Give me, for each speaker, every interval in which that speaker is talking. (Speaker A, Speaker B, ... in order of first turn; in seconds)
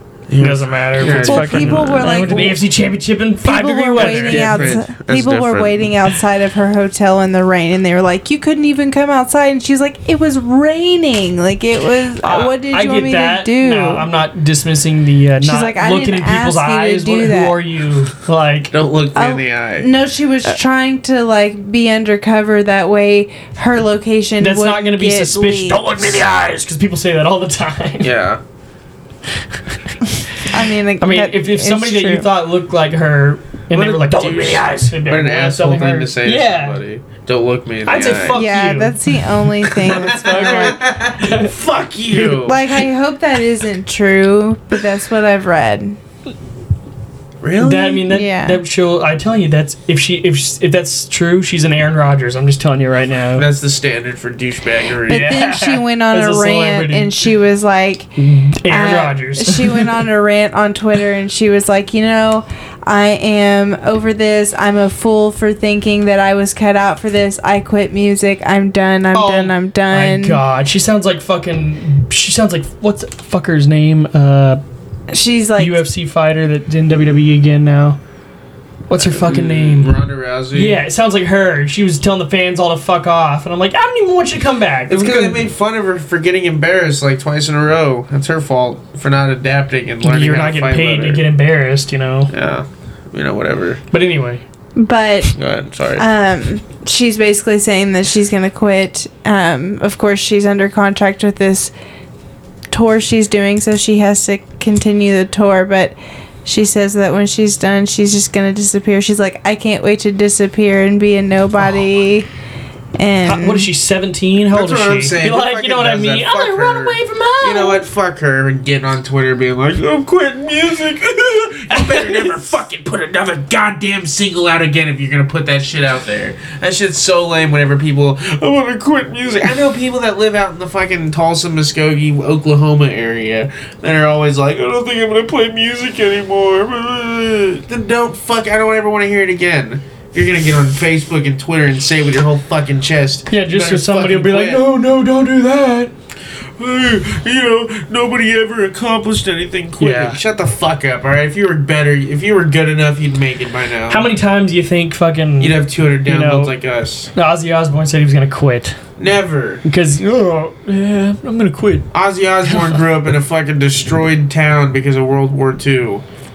Speaker A: 0.3-2.5, 4.0-5.9, 18.7-19.9, 28.0-28.4, 33.7-38.4, 39.8-42.6, 47.4-48.0, 53.4-55.4, 78.9-80.8, 84.9-91.2, 92.3-93.8, 95.3-96.0, 114.5-144.7, 146.6-154.1, 155.4-157.1, 159.0-159.6, 161.9-166.0
Speaker B: 0.4-4.8, 12.2-18.7, 24.4-28.1, 31.0-36.8, 37.9-39.0, 39.7-41.5, 47.6-53.5, 55.1-57.2, 58.2-60.0, 69.1-74.6, 75.6-78.0, 78.9-80.0, 80.5-85.4, 90.0-92.3, 93.9-94.4, 113.2-117.8, 121.7-122.5, 143.3-145.9, 149.8-150.2, 153.9-156.5, 157.2-158.8, 159.7-161.9, 162.4-162.8
Speaker C: 1.0-2.6, 3.4-14.1, 15.4-17.6, 19.1-25.9, 30.4-32.3, 38.3-40.8, 42.2-46.0, 48.1-48.6, 55.1-58.1, 58.6-70.4, 75.1-75.8, 94.8-95.4, 96.0-101.7, 102.7-112.3, 113.0-113.7